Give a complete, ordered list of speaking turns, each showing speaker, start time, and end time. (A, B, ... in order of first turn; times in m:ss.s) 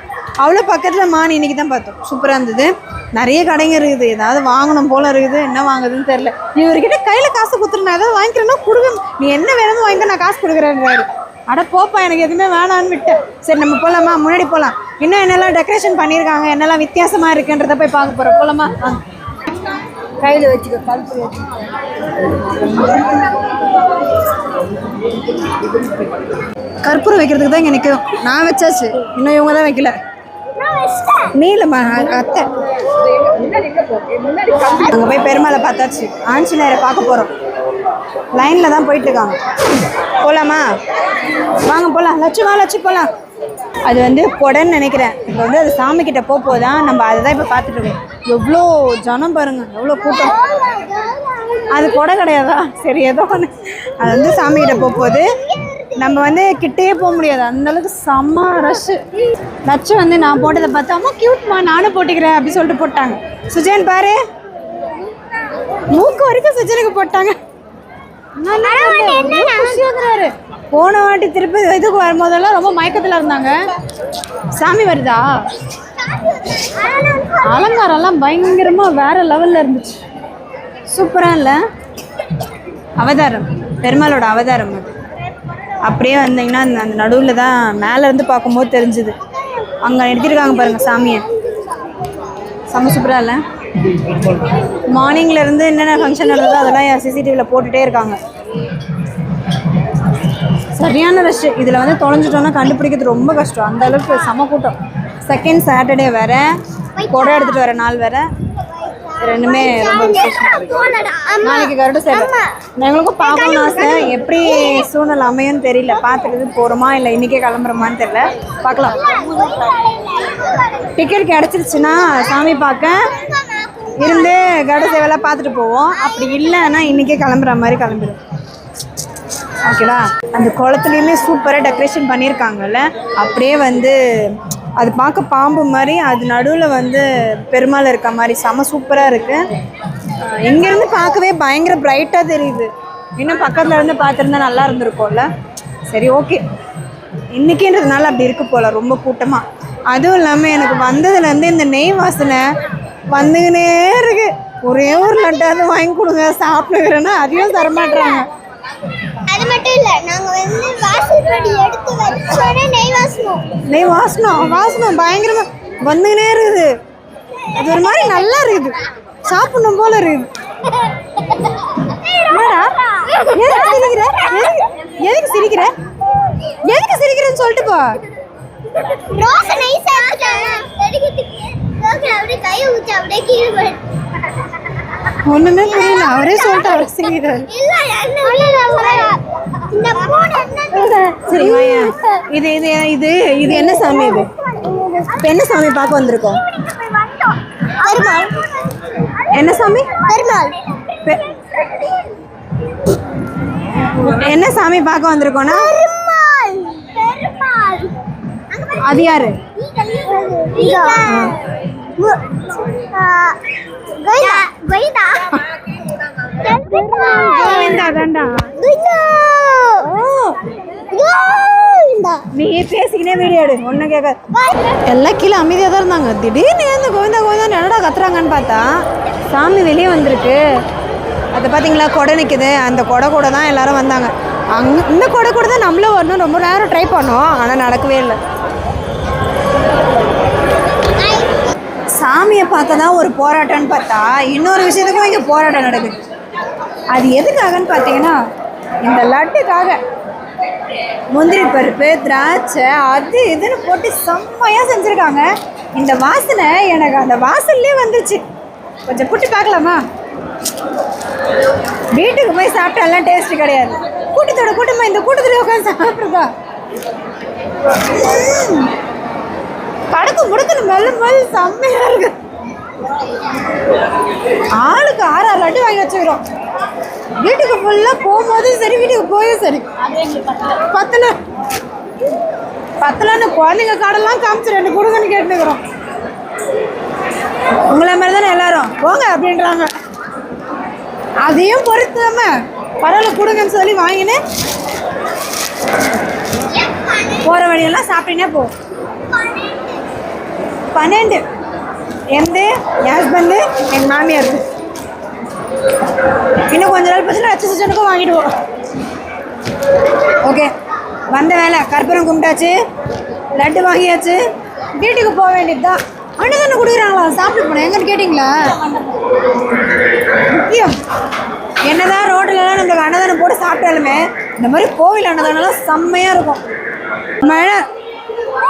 0:00.4-0:19.0 A
0:20.2-0:21.7 B
0:22.3-0:23.1 B
0:26.8-0:30.0 A
0:30.6-0:31.3 C
0:31.3-0:32.5 A
0:32.9-0:34.8 B
0:34.7-0:37.3 A
0:38.3-0:39.4 A
0:40.2-0:40.7 A
0:41.5-0:43.1 A
0:43.8-0:50.4 A
0:50.0-0:51.9 C
0:51.7-0:55.3 A
0:54.1-0:56.1 C
0:56.0-0:59.0 A
0:59.6-1:04.2 A
1:05.9-1:07.4 A
1:08.4-1:13.6 A
1:08.6-1:09.9 C
1:14.6-1:15.2 A
1:16.0-1:17.7 C
1:17.4-1:20.0 A
1:20.9-1:21.6 A
1:23.0-1:24.9 A
1:25.8-1:29.2 A
1:29.8-1:31.2 A
1:32.7-1:33.4 A
1:34.7-1:38.2 A
1:40.7-1:46.4 A
1:47.0-1:47.6 C
1:47.1-1:48.3 A
1:48.6-1:52.6 C
1:49.2-1:50.7 A
1:51.4-1:59.0 A
1:53.2-1:54.8 C
1:58.9-2:01.1 C
2:01.0-2:03.0 A
2:01.8-2:04.8 C
2:04.0-2:08.2 A
2:09.7-2:19.4 A
2:20.2-2:25.3 A
2:25.9-2:26.4 A
2:27.3-2:32.4 A
2:33.1-2:38.3 A
2:37.6-2:38.2 C
2:39.2-2:43.5 C
2:43.7-2:46.7 A
2:47.6-2:50.3 A
2:47.7-2:48.2 C
2:50.8-2:53.9 C
2:52.3-2:55.7 A
2:56.6-2:57.9 A
2:59.1-3:03.8 C
3:05.2-3:07.5 A
3:05.6-3:06.9 C
3:07.5-3:12.2 C
3:10.7-3:14.3 A
3:13.5-3:15.4 C
3:15.2-3:16.4 A
3:16.4-3:19.2 C
3:19.3-3:19.9 A
3:19.9-3:22.1 C
3:23.9-3:25.7 A
3:25.5-3:31.4 C
3:28.8-3:29.4 A
3:30.6-3:31.4 A
3:32.0-3:33.4 C
3:33.9-3:35.4 C
3:36.3-3:38.0 C
3:36.7-3:38.5 A
3:38.6-3:39.9 C
3:39.8-3:40.4 A
3:40.7-3:42.2 C
3:42.3-3:44.2 A
3:44.3-3:44.8 C
3:44.9-3:48.6 A
3:49.3-3:50.4 A
3:51.3-3:58.2 A
4:00.8-4:01.5 C
4:02.0-4:06.0 A
4:06.9-4:08.2 A
4:08.8-4:09.8 A
4:11.1-4:18.2 A
4:18.9-4:19.8 A
4:21.9-4:26.3 A
4:27.9-4:28.7 A
4:29.9-4:32.1 A
4:34.5-4:36.2 A
4:37.2-4:41.1 A
4:42.8-4:45.6 A
4:47.7-4:49.7 A
4:51.2-4:54.2 A
4:56.5-4:57.2 C
4:57.2-4:58.5 A
4:59.1-4:59.8 C
5:00.7-5:01.2 A
5:02.1-5:04.4 A
5:06.4-5:08.3 A
5:10.2-5:10.5 A
5:11.1-5:12.6 A
5:13.4-5:14.2 A
5:14.8-5:19.0 A
5:20.1-5:20.8 A
5:21.7-5:26.4 A
5:27.2-5:27.6 A